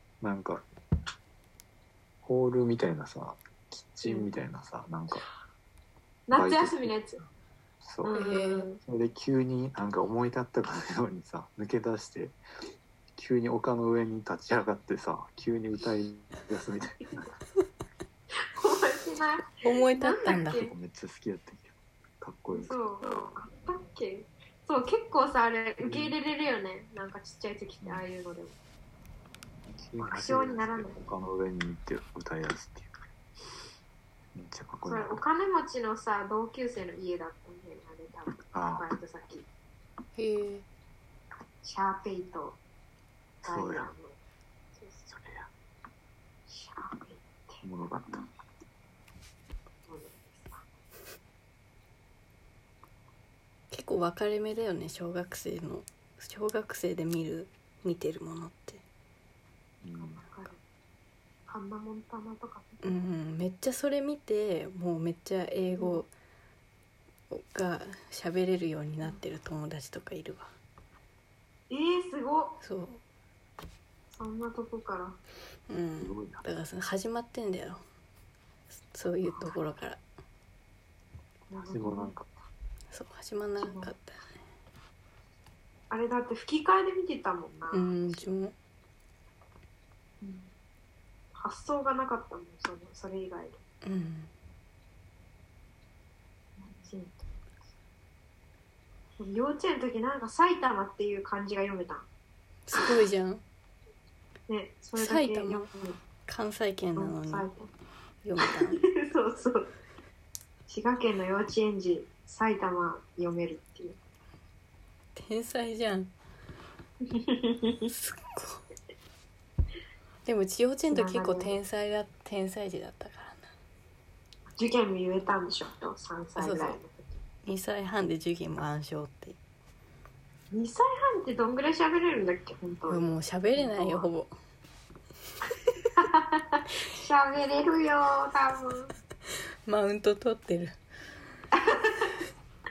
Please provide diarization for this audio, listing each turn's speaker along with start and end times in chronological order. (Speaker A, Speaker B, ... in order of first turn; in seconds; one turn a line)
Speaker A: 0.2-0.6
Speaker A: 2.2-5.2
Speaker B: 4.0-4.3
Speaker B: 6.3-7.2
Speaker A: 6.3-6.9
Speaker A: 7.8-8.2
Speaker B: 8.0-8.8
Speaker C: 8.1-8.7
Speaker A: 8.8-12.4
Speaker A: 13.2-17.4
Speaker B: 18.4-20.7
Speaker C: 19.6-20.7
Speaker A: 20.4-23.2
Speaker B: 22.5-28.6
Speaker A: 25.8-26.1
Speaker A: 29.7-32.9
Speaker B: 30.0-31.0
Speaker A: 34.3-35.2
Speaker B: 34.9-39.5
Speaker A: 38.5-38.9
Speaker C: 40.2-40.6
Speaker B: 41.6-42.6
Speaker A: 43.4-43.9
Speaker B: 43.5-44.2
Speaker B: 44.8-45.1
Speaker A: 45.1-45.5
Speaker B: 46.5-47.6
Speaker A: 47.6-48.3
Speaker B: 49.9-50.6
Speaker C: 53.7-58.8
Speaker A: 59.8-60.3
Speaker B: 60.0-60.6
Speaker B: 61.5-63.0
Speaker C: 62.8-66.1
Speaker B: 65.8-66.0
Speaker C: 67.3-70.5
Speaker B: 71.7-72.6
Speaker C: 72.6-73.0
Speaker B: 74.1-75.2
Speaker C: 75.7-77.8
Speaker A: 76.0-76.4
Speaker C: 78.9-80.0
Speaker B: 79.3-79.6
Speaker B: 81.5-82.2
Speaker A: 81.6-82.3
Speaker C: 82.9-84.2
Speaker B: 83.6-83.9
Speaker B: 85.9-88.3
Speaker C: 87.7-88.5
Speaker B: 90.2-90.5
Speaker B: 91.4-93.6
Speaker C: 93.8-94.3
Speaker B: 96.6-97.3
Speaker B: 99.2-102.1
Speaker C: 102.7-103.4
Speaker B: 104.5-106.0
Speaker C: 105.0-105.7
Speaker C: 106.3-107.5
Speaker B: 107.0-107.7
Speaker C: 108.2-108.8
Speaker B: 108.4-109.7
Speaker B: 110.7-114.0
Speaker C: 115.2-116.1
Speaker B: 117.1-117.9
Speaker C: 117.9-118.7
Speaker C: 120.3-123.4
Speaker B: 120.9-121.5
Speaker B: 124.6-127.1
Speaker C: 126.4-126.8
Speaker C: 127.5-129.4
Speaker B: 130.5-134.1
Speaker C: 132.9-134.3
Speaker B: 135.9-138.9
Speaker C: 139.7-140.8
Speaker B: 141.5-142.1